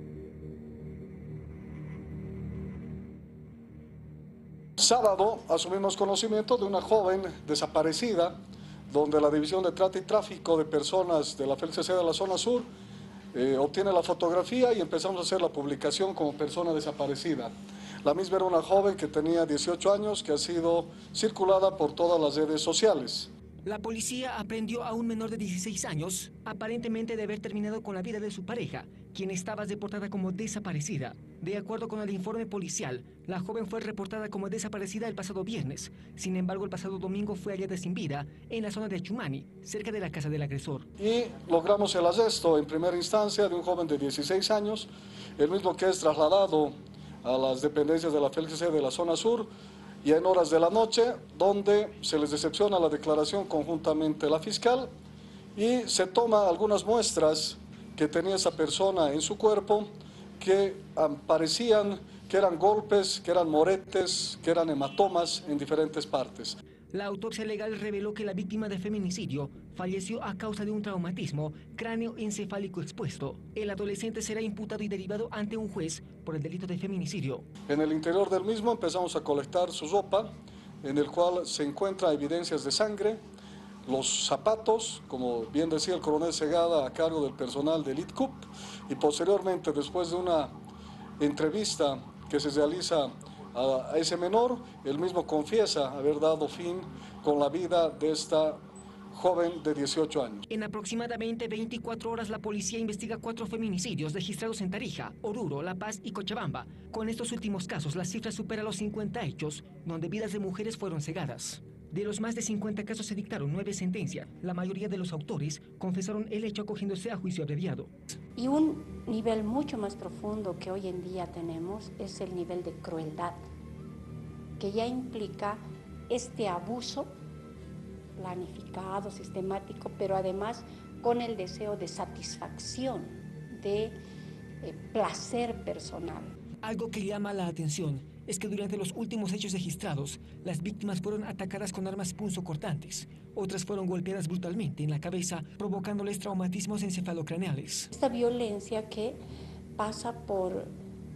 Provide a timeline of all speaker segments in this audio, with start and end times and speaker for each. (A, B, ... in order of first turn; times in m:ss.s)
0:04.8-0:08.4 A
0:08.9-0:12.7 A
0:13.3-0:17.5 A
0:18.0-0:23.3 A
0:23.6-0:40.9 B
0:41.0-0:49.5 A
0:50.0-0:54.9 A
0:55.6-1:06.6 A
1:06.9-1:17.4 B
1:17.7-1:20.3 A
1:20.8-1:23.2 A
1:23.8-1:30.5 A
1:31.2-1:38.6 A
1:39.1-1:40.4 A
1:40.5-1:57.9 B
1:58.3-2:03.4 C
2:04.6-2:07.1 C
2:08.2-2:14.0 C
2:14.6-2:16.3 C
2:16.6-2:27.9 B
2:27.9-2:29.2 C
2:29.8-2:30.7 C